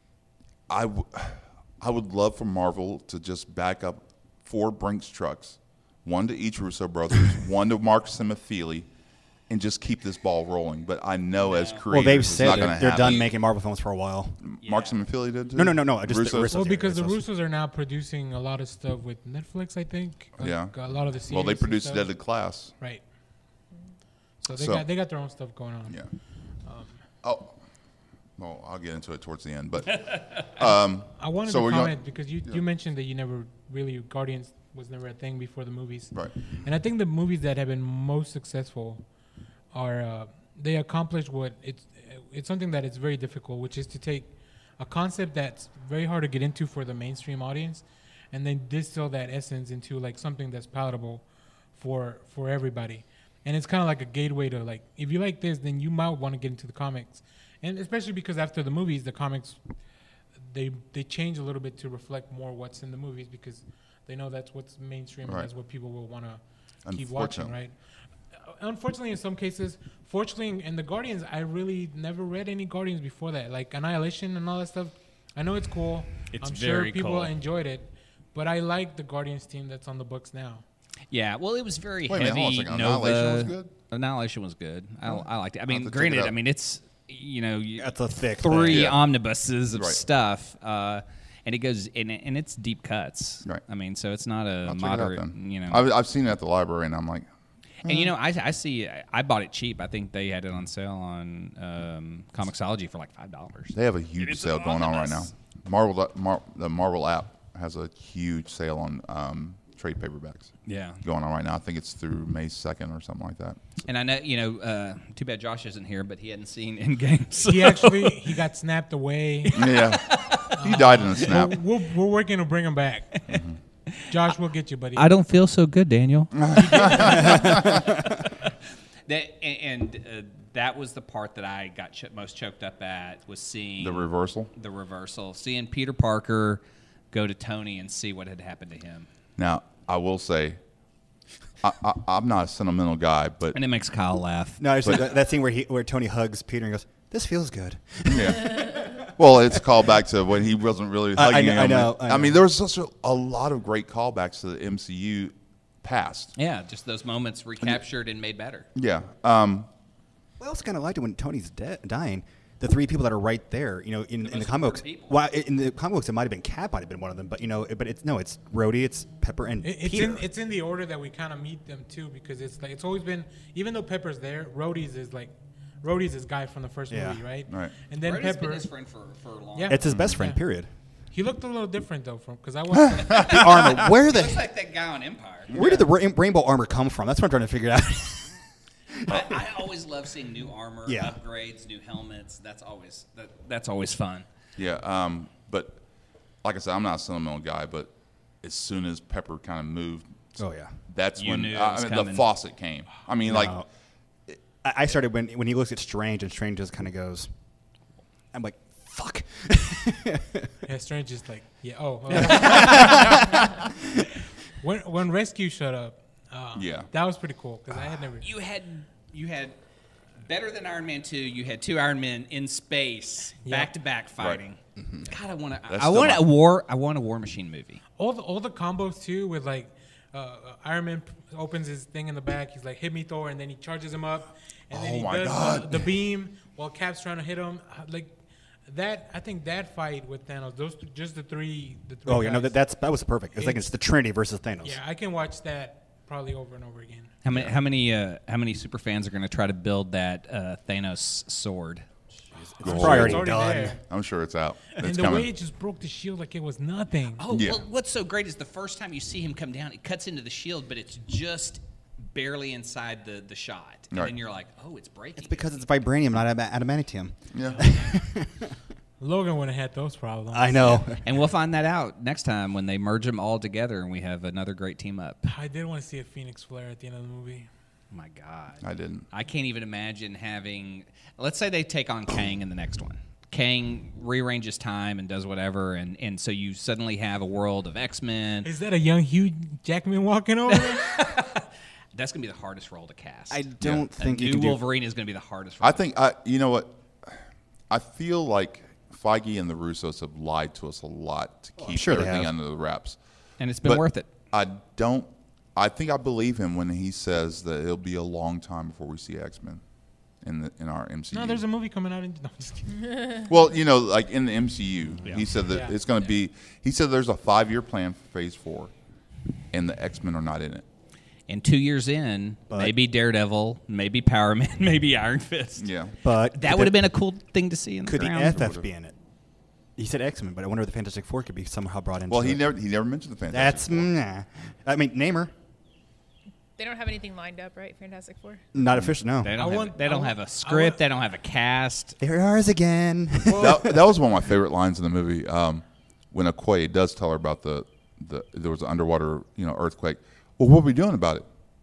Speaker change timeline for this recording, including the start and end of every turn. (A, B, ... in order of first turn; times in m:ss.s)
0:00.7-0:08.9 A
0:09.5-0:13.3 A
0:11.4-0:12.8 B
0:11.9-0:14.4 C
0:13.0-0:13.3 D
0:14.4-0:16.5 A
0:14.6-0:15.0 B
0:15.5-0:17.2 C
0:16.5-0:22.1 E
0:20.4-0:22.7 A
0:22.8-0:23.0 E
0:24.4-0:26.0 E
0:24.5-0:24.9 A
0:26.6-0:27.0 E
0:27.2-0:27.6 A
0:28.4-0:32.6 A
0:31.2-0:39.1 E
0:39.7-0:59.6 E
1:00.5-1:07.8 E
1:06.9-1:07.5 A
1:08.4-1:20.6 E
1:16.3-1:17.3 B
1:21.1-1:35.8 B
1:22.1-1:23.7 A
1:25.7-1:26.3 A
1:27.8-1:29.0 C
1:28.7-1:29.0 A
1:29.7-1:30.0 A
1:34.7-1:37.3 A
1:37.8-1:45.3 B
1:37.8-1:38.1 A
1:43.7-1:53.6 A
1:50.7-1:51.0 B
1:53.9-1:58.4 B
1:57.4-1:59.6 E
1:59.4-2:00.5 B
1:59.6-2:01.6 A
2:00.5-2:03.2 E
2:03.3-2:03.6 A
2:03.9-2:04.1 B
2:04.1-2:05.1 E
2:05.0-2:08.5 B
2:06.5-2:07.8 A
2:06.7-2:07.6 E
2:09.1-2:19.1 B
2:13.8-2:14.5 A
2:19.4-2:20.6 A
2:21.6-2:23.6 A
2:23.5-2:25.0 B
2:24.6-2:29.0 C
2:28.1-2:36.3 A
2:31.2-2:32.4 C
2:36.4-2:38.7 B
2:38.8-2:39.7 A
2:40.4-2:50.2 C
2:44.2-2:45.2 B
2:49.6-2:58.7 E
2:56.9-2:57.2 C
2:57.5-2:57.7 A
2:58.0-2:59.8 B
2:59.6-3:00.4 E
2:59.7-3:00.7 C
3:01.1-3:03.5 E
3:02.9-3:03.4 A
3:03.2-3:04.5 C
3:03.2-3:05.9 B
3:05.5-3:08.4 C
3:09.0-3:14.3 B
3:10.9-3:11.2 C
3:14.6-3:15.8 A
3:16.4-3:20.4 A
3:20.4-3:20.8 C
3:20.9-3:23.6 A
3:21.2-3:22.3 B
3:23.2-3:23.7 C
3:24.6-3:27.3 C
3:28.3-3:30.5 C
3:30.7-3:33.4 E
3:32.1-3:33.6 C
3:34.6-3:38.3 E
3:36.6-3:36.9 A
3:38.2-3:39.6 B
3:40.2-3:47.8 B
3:43.4-3:43.7 E
3:44.8-3:45.1 C
3:45.7-3:46.3 A
3:48.0-4:02.6 E
3:54.7-3:55.9 A
4:02.1-4:04.8 C
4:03.4-4:03.7 E
4:04.6-4:07.2 E
4:07.2-4:11.9 B
4:07.3-4:07.6 A
4:12.5-4:13.8 C
4:12.6-4:13.8 E
4:12.6-4:15.3 A
4:14.8-4:17.2 E
4:17.2-4:25.6 B
4:17.3-4:17.6 A
4:25.2-4:28.6 C
4:27.3-4:27.6 A
4:29.0-4:30.8 E
4:30.3-4:31.0 C
4:31.0-4:35.2 B
4:35.2-4:37.5 E
4:37.9-4:48.5 B
4:38.6-4:39.1 A
4:48.4-4:51.3 E
4:50.6-4:55.8 B
4:53.3-4:54.6 C
4:55.6-4:57.2 A
4:57.7-5:03.0 A
5:01.6-5:02.3 C
5:03.4-5:04.1 B
5:03.6-5:09.6 A
5:10.2-5:11.4 A
5:11.1-5:13.2 E
5:13.3-5:18.7 A
5:15.0-5:15.3 B
5:15.5-5:15.8 E
5:19.5-5:20.6 A
5:21.3-5:25.7 B
5:25.6-5:26.0 A
5:26.0-5:26.8 C
5:26.3-5:28.4 B
5:27.8-5:28.9 C
5:28.3-5:28.6 A
5:29.8-5:32.4 C
5:32.1-5:33.9 A
5:33.3-5:35.3 C
5:36.6-5:38.4 D
5:38.5-5:39.3 C
5:39.2-5:42.0 B
5:39.4-5:40.8 E
5:42.0-5:43.9 C
5:43.3-5:43.6 E
5:43.4-5:51.3 A